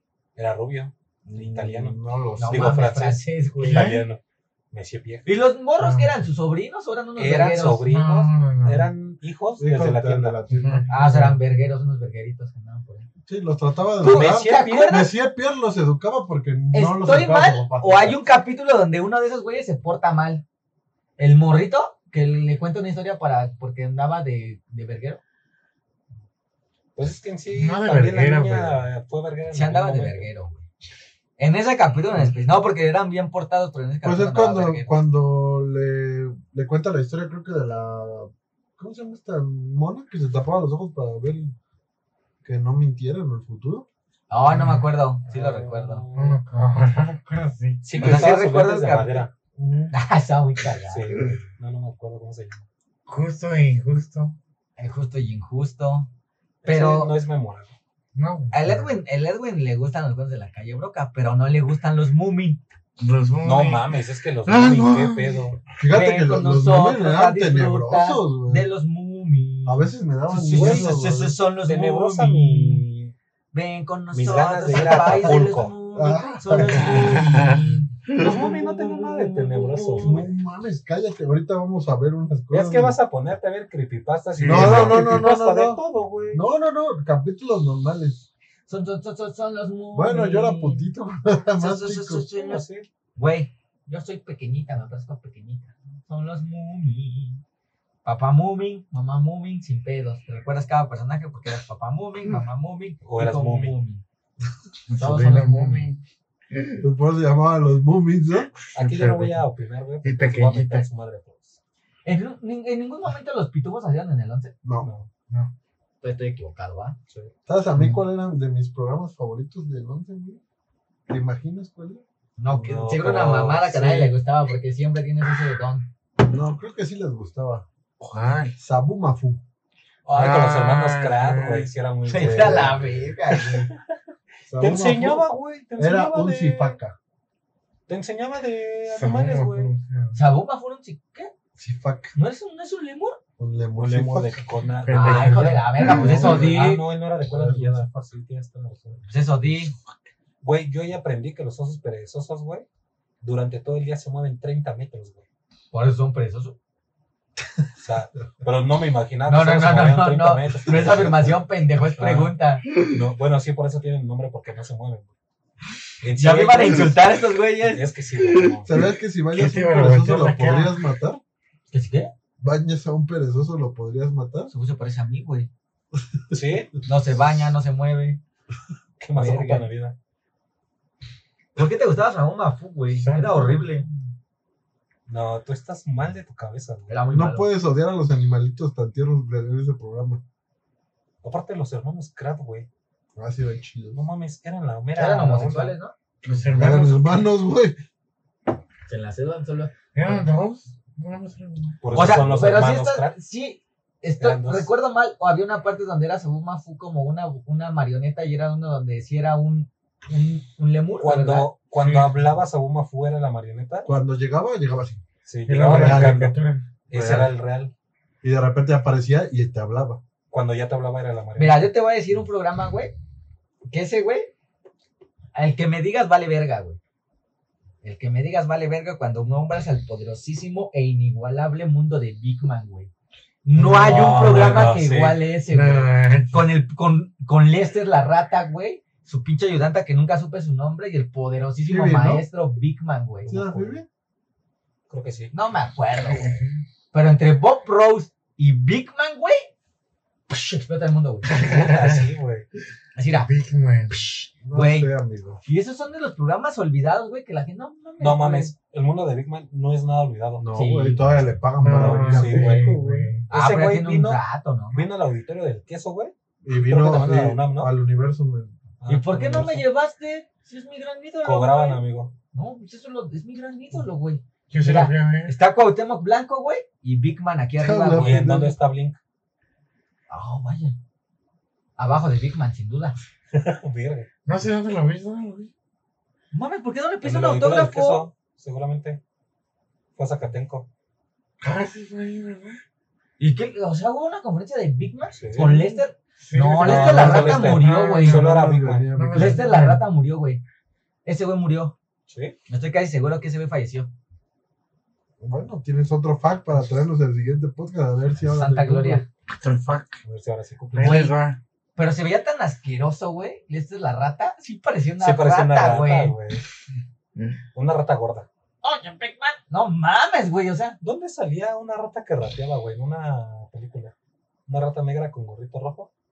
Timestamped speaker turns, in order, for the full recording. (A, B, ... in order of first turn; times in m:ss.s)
0:00.4-0:04.2 A
0:01.2-0:02.8 B
0:02.4-0:03.9 C
0:03.6-0:04.1 D
0:04.7-0:05.3 A
0:05.2-0:07.9 C
0:05.8-0:06.1 D
0:07.2-0:10.4 A
0:07.9-0:08.9 D
0:09.6-0:11.1 B
0:10.5-0:11.3 D
0:10.9-0:13.1 C
0:13.2-0:18.2 B
0:14.0-0:15.1 C
0:14.0-0:15.0 A
0:16.7-0:20.4 C
0:21.2-0:25.2 C
0:27.0-0:30.3 A
0:27.5-0:28.8 D
0:29.5-0:30.6 C
0:31.4-0:35.0 C
0:34.0-0:41.5 B
0:42.4-0:43.8 B
0:44.3-0:46.0 C
0:44.5-0:44.8 D
0:45.3-0:46.4 A
0:46.1-0:48.3 D
0:47.8-0:49.3 A
0:48.0-0:49.3 C
0:49.6-0:49.9 B
0:49.9-0:51.3 C
0:50.8-0:52.6 A
0:53.1-0:54.3 D
0:54.8-0:56.1 C
0:56.6-0:57.7 A
0:56.6-0:57.1 C
0:58.1-0:59.0 D
0:58.5-1:02.6 C
1:03.0-1:03.9 D
1:03.4-1:05.6 A
1:04.4-1:05.4 D
1:05.8-1:08.7 B
1:05.9-1:12.8 C
1:09.6-1:11.4 B
1:10.4-1:10.9 A
1:11.6-1:13.1 A
1:13.5-1:20.2 C
1:14.1-1:15.7 A
1:15.1-1:15.3 B
1:15.9-1:17.4 B
1:16.9-1:17.7 D
1:18.2-1:20.3 A
1:20.0-1:23.0 B
1:22.5-1:26.4 A
1:24.4-1:25.3 D
1:24.4-1:28.3 B
1:28.7-1:30.9 C
1:29.9-1:32.3 B
1:31.6-1:32.6 C
1:32.3-1:32.9 A
1:33.2-1:37.4 C
1:38.0-1:44.0 C
1:43.0-1:43.7 A
1:44.9-1:46.0 D
1:45.0-1:45.9 C
1:46.5-1:46.8 D
1:46.8-1:48.5 B
1:48.7-1:49.4 D
1:48.7-1:51.6 A
1:50.0-1:50.8 D
1:52.0-1:54.5 C
1:54.6-1:54.9 B
1:54.8-1:55.1 A
1:56.0-1:57.0 C
1:57.4-2:00.4 B
1:57.8-1:58.0 D
2:01.1-2:02.7 B
2:02.4-2:05.9 C
2:02.6-2:04.1 A
2:06.2-2:07.6 B
2:08.0-2:08.6 D
2:08.6-2:09.4 B
2:10.0-2:13.8 A
2:10.1-2:11.7 D
2:12.1-2:13.7 C
2:12.1-2:13.1 B
2:14.5-2:17.0 B
2:14.6-2:16.8 A
2:17.9-2:19.7 A
2:18.9-2:20.2 D
2:20.1-2:21.3 C
2:21.6-2:22.1 B
2:22.1-2:23.2 C
2:23.4-2:24.4 B
2:23.7-2:29.0 A
2:24.8-2:26.7 D
2:24.9-2:26.8 C
2:25.9-2:26.6 B
2:27.2-2:27.9 B
2:29.1-2:29.7 C
2:30.4-2:32.6 A
2:33.2-2:35.2 A
2:35.7-2:36.6 C
2:37.8-2:41.4 A
2:39.3-2:42.6 C
2:42.0-2:42.3 A
2:42.8-2:45.1 A
2:46.0-2:47.0 A
2:46.2-2:47.9 C
2:47.6-2:48.7 A
2:48.6-2:51.2 B
2:49.3-2:50.7 D
2:51.7-2:52.1 C
2:52.4-2:54.5 B
2:54.5-2:55.5 C
2:56.3-2:56.7 A
2:56.8-2:58.2 C
2:59.0-3:00.0 A
2:59.1-2:59.7 C
3:01.6-3:03.9 C
3:02.9-3:03.8 D
3:05.1-3:07.0 A
3:06.9-3:07.5 C
3:07.1-3:10.2 B
3:11.2-3:12.7 A
3:13.2-3:14.0 B
3:13.9-3:15.8 A
3:15.0-3:15.9 C
3:16.2-3:17.2 D
3:16.5-3:17.8 B
3:18.9-3:20.2 C
3:19.9-3:22.2 D
3:21.8-3:23.1 A
3:21.9-3:31.5 C
3:24.2-3:24.7 A
3:31.0-3:33.9 A
3:31.8-3:32.0 D
3:33.8-3:35.0 B
3:35.2-3:36.4 A
3:35.5-3:36.6 D
3:35.6-3:36.3 B
3:36.9-3:37.7 A
3:36.9-3:37.3 B
3:38.2-3:40.0 B
3:40.3-3:41.7 A
3:41.4-3:42.9 C
3:43.7-3:44.3 C
3:45.3-3:46.8 C
3:47.8-3:52.9 C
3:53.4-4:03.4 C
3:53.6-3:54.4 D
3:53.8-3:55.2 A
3:55.5-3:56.4 D
4:01.6-4:02.2 B
4:03.2-4:03.8 A
4:03.3-4:03.8 B
4:04.9-4:05.3 A
4:05.3-4:06.4 C
4:06.0-4:06.6 D
4:06.9-4:09.5 C
4:10.3-4:11.3 C
4:11.3-4:12.0 D
4:11.4-4:12.5 A
4:12.9-4:13.3 C
4:13.1-4:14.0 D
4:13.9-4:14.9 C
4:14.4-4:15.4 B
4:15.4-4:18.5 C
4:18.0-4:20.4 A
4:20.4-4:23.1 B
4:20.5-4:21.2 C
4:21.6-4:23.2 D
4:21.7-4:22.7 A
4:23.3-4:27.7 A
4:23.3-4:24.8 C
4:26.4-4:28.6 B
4:28.8-4:29.6 A
4:28.9-4:31.8 C
4:31.2-4:32.1 A
4:32.3-4:38.2 C
4:34.5-4:35.3 D
4:37.6-4:38.6 B
4:37.9-4:39.0 A
4:40.1-4:40.8 C
4:41.8-4:43.0 C
4:43.3-4:44.1 A
4:44.2-4:45.5 D
4:46.3-4:48.1 C
4:47.0-4:49.0 A
4:50.0-4:50.7 A
4:51.4-4:52.6 D
4:53.2-4:58.2 C
4:55.1-4:55.7 A
4:56.2-4:58.2 D
4:56.6-4:58.9 A
4:56.7-4:59.4 B
4:59.0-4:59.8 D
4:59.1-5:00.4 C
5:01.0-5:01.7 C
5:02.1-5:02.4 A
5:02.5-5:03.9 C
5:05.2-5:09.1 B
5:08.3-5:09.0 C
5:09.3-5:10.0 D
5:10.0-5:11.0 A
5:10.7-5:11.4 D
5:10.8-5:11.1 C
5:11.8-5:16.1 C
5:15.0-5:16.4 A
5:17.5-5:18.3 A
5:18.6-5:20.8 C
5:20.8-5:23.9 A
5:24.5-5:25.9 A